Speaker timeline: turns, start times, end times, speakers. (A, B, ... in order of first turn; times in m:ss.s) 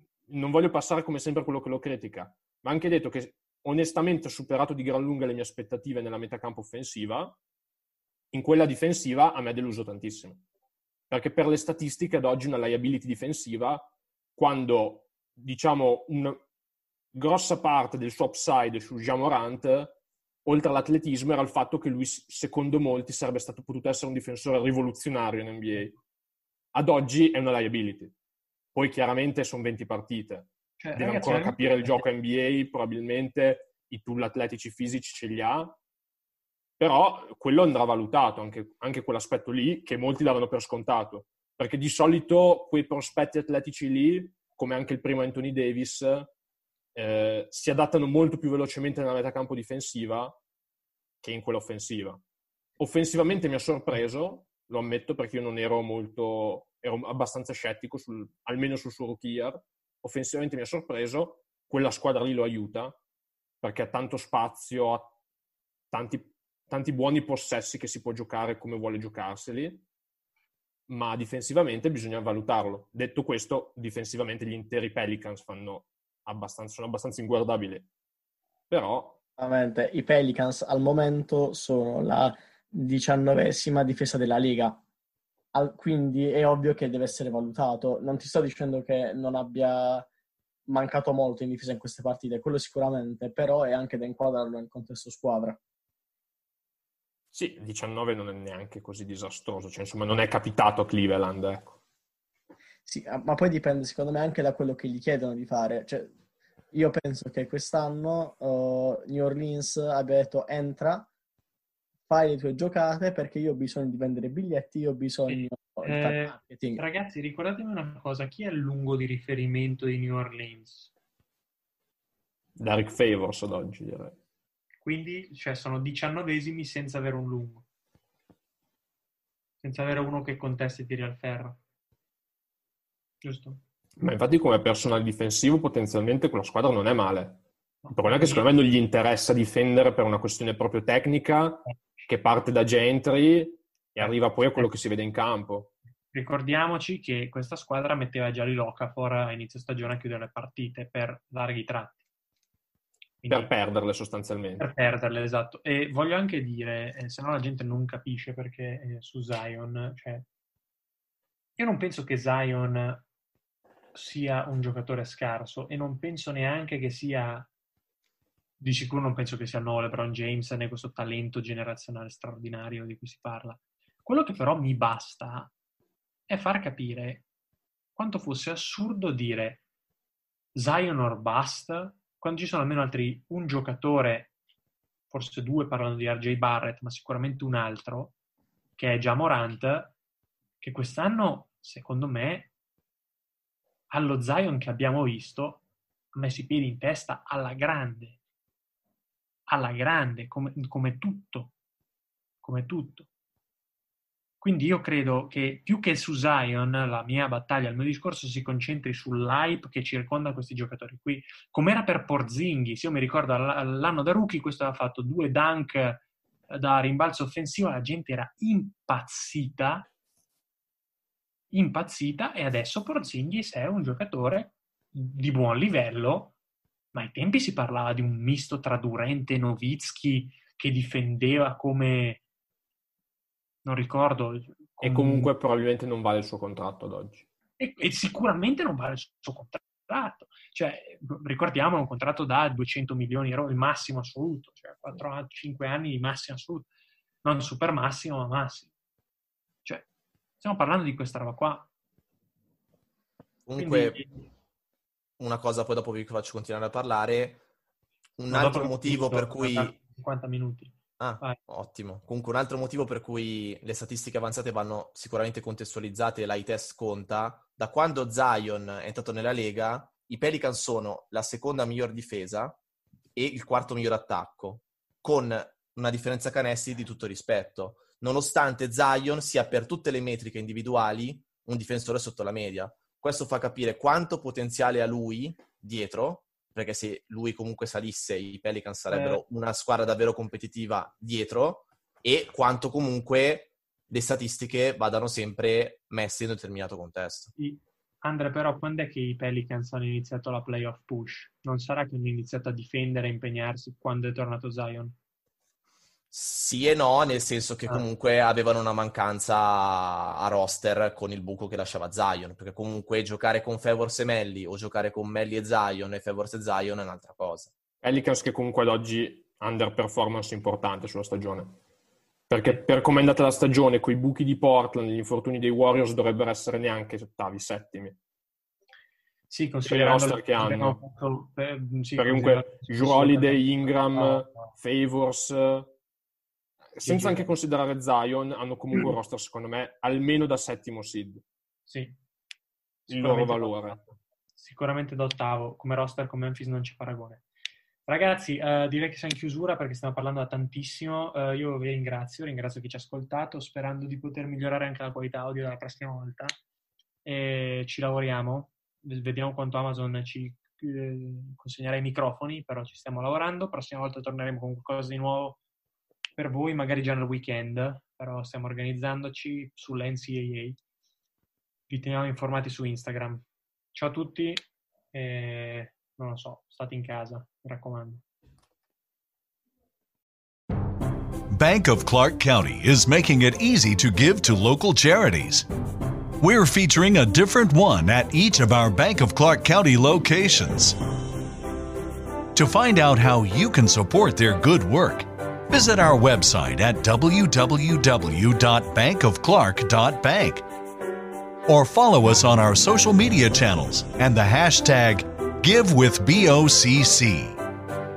0:00.3-0:07.4 A
0:08.3-0:10.4 A
0:11.1-0:16.4 A
0:17.1-0:26.0 A
0:26.7-0:28.1 A
0:28.7-0:35.8 A
0:30.8-0:32.0 B
0:36.8-0:46.3 A
0:47.0-0:50.4 A
0:51.2-0:52.2 A
0:52.8-1:03.0 A
1:03.6-1:05.2 A
1:05.9-1:09.8 A
1:10.9-1:17.9 A
1:18.7-1:19.2 A
1:19.4-1:24.8 C
1:25.5-1:30.1 C
1:30.7-1:35.6 C
1:37.3-1:41.8 A
1:42.9-1:46.1 C
1:46.7-1:51.1 C
1:52.1-1:56.8 C
1:55.3-2:00.9 B
2:02.6-2:04.2 A
2:04.8-2:07.6 B
2:09.6-2:11.6 B
2:13.2-2:13.6 B
2:14.0-2:25.7 A
2:17.8-2:18.4 B
2:24.0-2:24.7 B
2:26.1-2:32.0 B
2:33.2-2:33.5 B
2:33.3-2:34.7 A
2:34.6-2:40.3 B
2:41.6-2:43.0 B
2:43.9-2:47.5 B
2:48.6-2:55.5 B
2:56.3-2:57.2 B
2:58.0-2:59.6 B
3:00.6-3:04.3 B
3:05.1-3:08.2 B
3:08.8-3:10.0 B
3:10.6-3:12.5 B
3:13.9-3:15.6 B
3:16.1-3:18.2 B
3:19.5-3:21.5 B
3:22.4-3:23.1 B
3:24.4-3:39.9 B
3:41.5-3:46.4 B
3:46.9-3:52.2 B
3:53.6-3:55.3 B
3:54.8-3:57.3 A
3:57.6-4:06.7 B
4:07.2-4:08.7 B
4:10.4-4:11.7 B
4:13.5-4:14.0 D
4:13.6-4:14.3 B
4:15.2-4:17.4 D
4:18.2-4:19.7 D
4:18.3-4:21.4 B
4:21.0-4:32.6 D
4:33.2-4:57.3 D
4:48.9-4:49.2 B
4:57.4-5:05.0 B
5:06.1-5:17.5 D
5:17.8-5:21.6 A
5:22.3-5:28.0 A
5:29.3-5:34.5 B
5:29.6-5:30.8 A
5:32.0-5:35.7 A
5:36.7-5:41.2 A
5:36.8-5:37.3 B
5:41.7-5:42.0 B
5:42.9-5:43.8 A
5:42.9-5:43.8 B
5:44.4-5:47.2 B
5:47.9-5:56.3 B
5:57.0-6:05.4 B
6:06.2-6:10.6 B
6:11.7-6:18.0 B
6:21.3-6:25.5 E
6:26.2-6:30.8 E
6:32.4-6:40.5 E
6:41.5-6:47.4 E